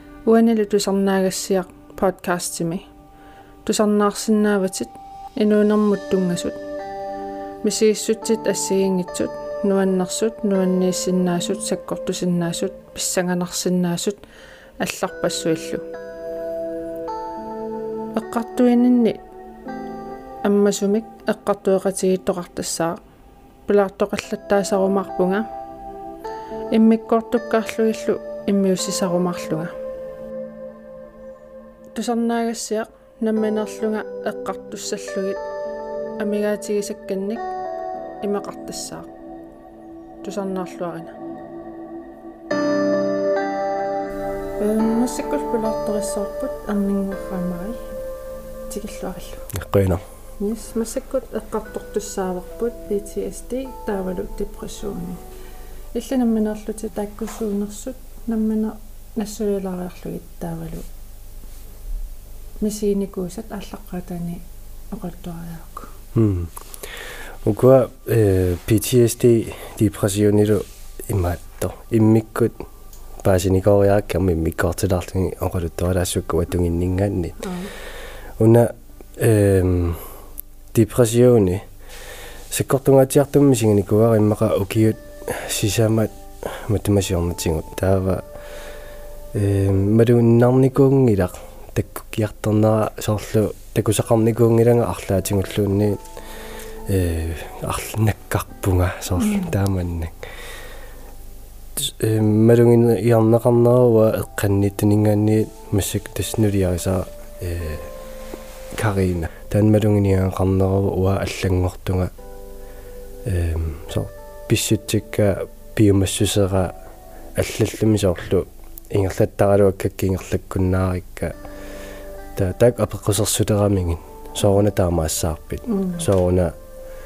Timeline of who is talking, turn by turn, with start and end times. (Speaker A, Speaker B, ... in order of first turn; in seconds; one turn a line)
Speaker A: 0.2-2.9
Speaker A: 3.6-6.6
Speaker A: 7.6-14.2
Speaker A: 14.8-15.8
Speaker A: 18.1-19.2
Speaker A: 20.4-23.0
Speaker A: 23.7-25.4
Speaker A: 26.7-29.7
Speaker A: 31.9-35.4
Speaker A: 36.2-37.5
Speaker A: 38.2-39.1
Speaker A: 40.2-41.1
Speaker A: 44.6-47.8
Speaker A: 48.7-49.4
Speaker B: 49.5-50.0
Speaker A: 50.4-55.2
Speaker A: 55.9-60.9
Speaker A: 62.6-65.9
Speaker B: 66.1-66.5
Speaker B: 67.4-72.6
Speaker B: 73.2-77.4
Speaker A: 77.4-77.7
Speaker B: 78.4-80.0
Speaker B: 80.7-81.6
Speaker B: 82.5-88.2
Speaker B: 89.3-96.0
Speaker B: 96.9-100.2
Speaker A: 99.2-99.5
Speaker B: 101.8-107.9
Speaker B: 108.8-112.1
Speaker B: 113.2-116.7
Speaker B: 117.3-121.3
Speaker B: 122.3-126.5
Speaker A: 125.7-126.0